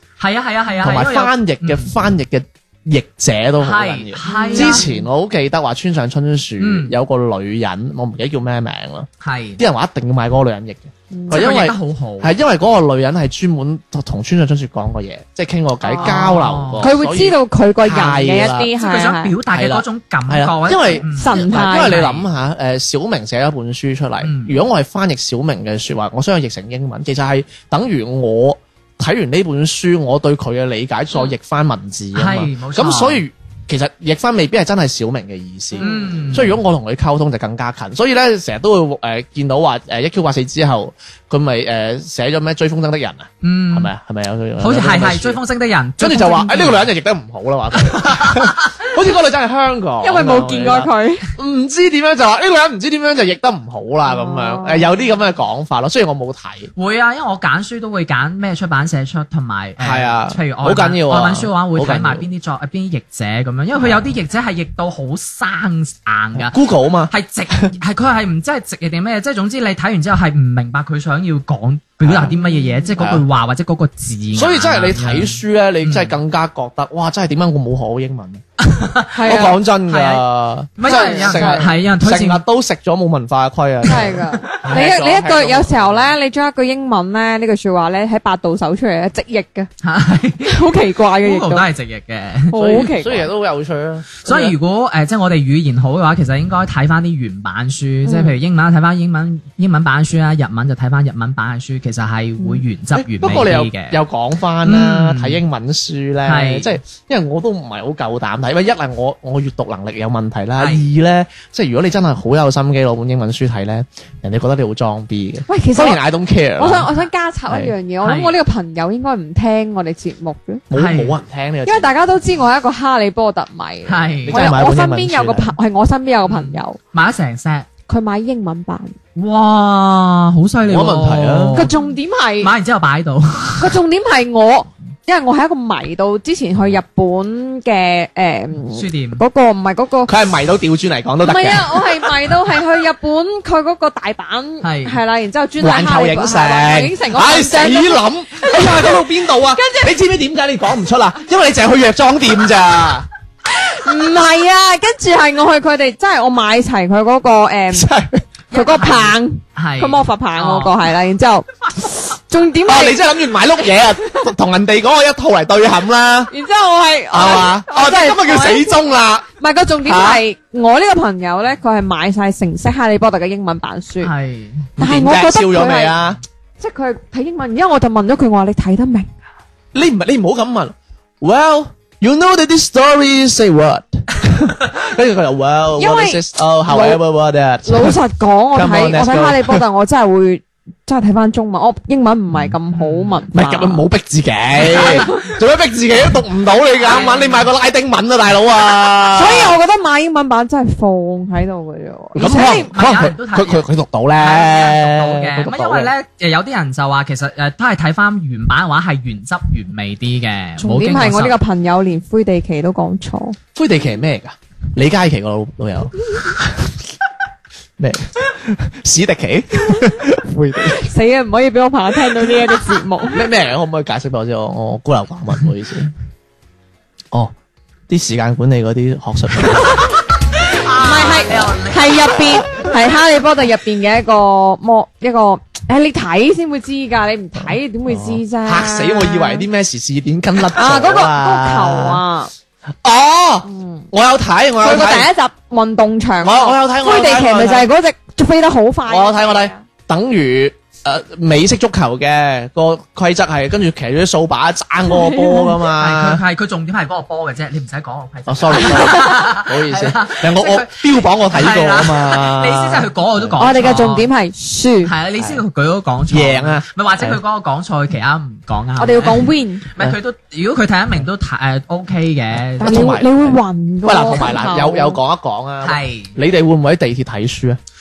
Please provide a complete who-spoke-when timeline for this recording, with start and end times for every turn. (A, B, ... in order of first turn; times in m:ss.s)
0:00.2-0:01.9 A
0:00.8-0:18.7 B
0:03.6-0:04.8 A
0:04.3-0:05.1 C
0:06.6-0:07.0 A
0:09.2-0:09.6 A
0:11.1-0:11.4 C
0:11.3-0:12.3 A
0:15.8-0:16.1 C
0:16.0-0:16.9 A
0:16.8-0:19.3 C
0:18.8-0:22.3 A
0:19.5-0:45.4 B
0:21.2-0:22.0 C
0:24.2-0:24.6 A
0:32.2-0:33.2 A
0:35.8-0:36.6 A
0:43.4-0:43.9 A
0:44.6-0:46.9 A
0:46.0-0:56.7 B
0:47.8-0:48.8 A
0:50.0-0:51.3 C
0:54.0-0:54.9 C
0:56.8-1:16.2 A
0:59.8-1:02.3 B
1:03.8-1:04.1 B
1:06.4-1:07.7 B
1:12.0-1:12.3 B
1:12.3-1:12.9 C
1:13.0-1:13.2 B
1:14.3-1:18.4 B
1:18.6-1:20.2 A
1:19.1-1:19.6 C
1:19.2-1:26.1 B
1:20.8-1:22.4 A
1:20.8-1:21.7 C
1:23.9-1:29.7 C
1:24.5-1:24.8 A
1:29.8-1:30.7 A
1:30.4-1:31.7 C
1:31.2-1:32.9 A
1:32.5-1:33.3 C
1:32.5-1:34.6 B
1:34.2-1:44.0 A
1:38.0-1:38.4 C
1:43.0-1:56.9 B
1:44.6-1:45.4 A
1:46.3-1:46.7 A
1:50.6-1:50.8 A
1:55.5-1:56.0 C
1:56.6-2:00.6 C
1:57.5-1:57.7 B
1:58.0-1:58.4 A
2:00.7-2:01.9 B
2:00.7-2:01.2 A
2:01.7-2:06.8 C
2:03.9-2:04.5 A
2:04.2-2:05.5 B
2:06.2-2:07.7 A
2:07.9-2:09.0 C
2:09.2-2:11.8 A
2:10.6-2:11.7 B
2:11.5-2:12.5 C
2:12.4-2:13.8 A
2:13.6-2:20.1 C
2:18.7-2:19.2 A
2:20.1-2:22.1 B
2:21.2-2:29.9 C
2:24.6-2:25.0 A
2:25.6-2:33.1 B
2:33.6-2:37.9 C
2:37.7-2:38.2 B
2:38.5-2:40.8 A
2:38.5-2:43.1 C
2:42.7-2:46.3 B
2:46.3-2:48.8 C
2:47.1-2:49.3 B
2:49.4-2:54.1 C
2:49.8-2:50.2 B
2:54.0-2:54.7 A
2:54.8-2:55.9 C
2:54.8-2:56.2 B
2:56.6-2:59.2 C
2:59.7-3:08.0 B
3:05.8-3:07.0 C
3:07.7-3:13.8 C
3:08.5-3:09.6 B
3:12.7-3:13.2 A
3:13.3-3:19.6 B
3:14.6-3:15.1 A
3:14.7-3:15.3 C
3:16.9-3:17.5 A
3:19.1-3:22.7 C
3:22.2-3:25.9 B
3:22.2-3:23.7 A
3:24.2-3:31.4 A
3:30.6-3:33.4 C
3:33.6-3:36.7 B
3:37.8-3:40.9 B
3:40.7-3:43.3 C
3:43.1-3:45.9 B
3:47.9-3:49.9 B
3:49.8-3:52.7 A
3:50.8-3:59.5 C
3:57.4-4:02.0 B
4:00.6-4:02.3 C
4:02.8-4:05.1 B
4:03.5-4:03.9 C
4:04.6-4:09.6 C
4:06.2-4:07.7 B
4:08.9-4:16.2 B
4:14.9-4:15.6 C
4:15.8-4:24.1 A
4:18.3-4:23.6 B
4:23.4-4:24.9 C
4:24.8-4:32.9 A
4:26.1-4:27.2 B
4:28.8-4:29.6 C
4:32.6-4:37.6 B
4:32.6-4:35.0 C
4:35.6-4:36.2 A